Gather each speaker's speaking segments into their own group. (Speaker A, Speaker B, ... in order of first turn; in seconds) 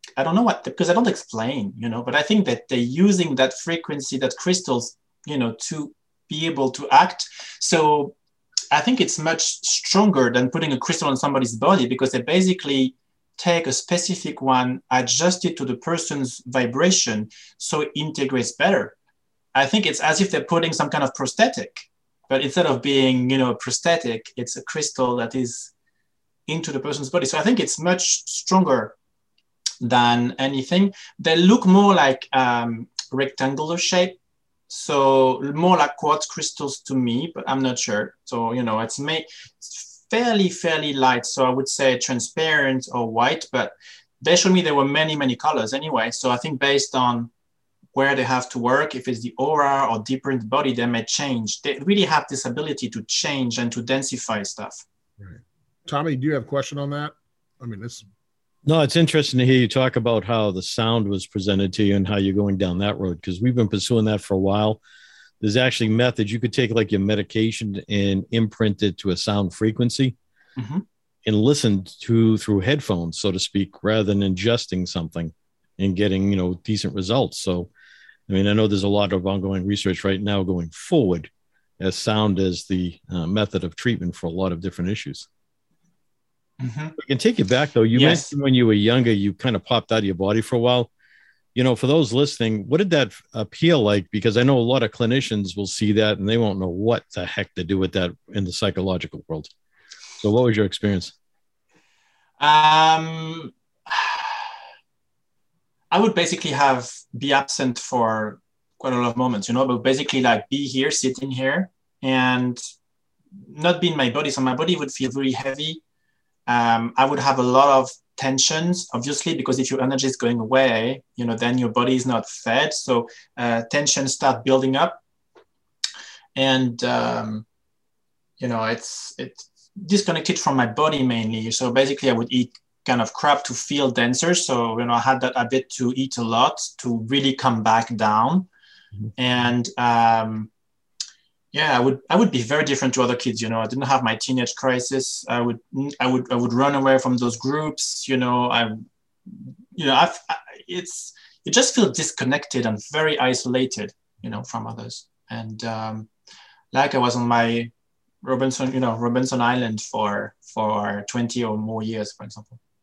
Speaker A: 0.2-8.2, 8.7-18.9, 19.6-25.7, 26.5-29.0, 29.8-34.2, 34.7-47.3, 47.9-54.9, 70.6-70.8, 86.6-87.0, 87.9-88.3, 102.4-104.5, 105.9-112.6, 113.5-115.8, 116.5-125.0, 126.4-127.5, 128.4-138.5, 139.2-140.5, 141.5-156.1, 156.7-157.7, 158.2-162.6
Speaker B: 55.2-58.0
Speaker C: 58.6-64.8, 65.4-70.2, 71.2-77.7, 78.3-85.3, 87.0-90.9, 91.5-99.5, 100.2-101.1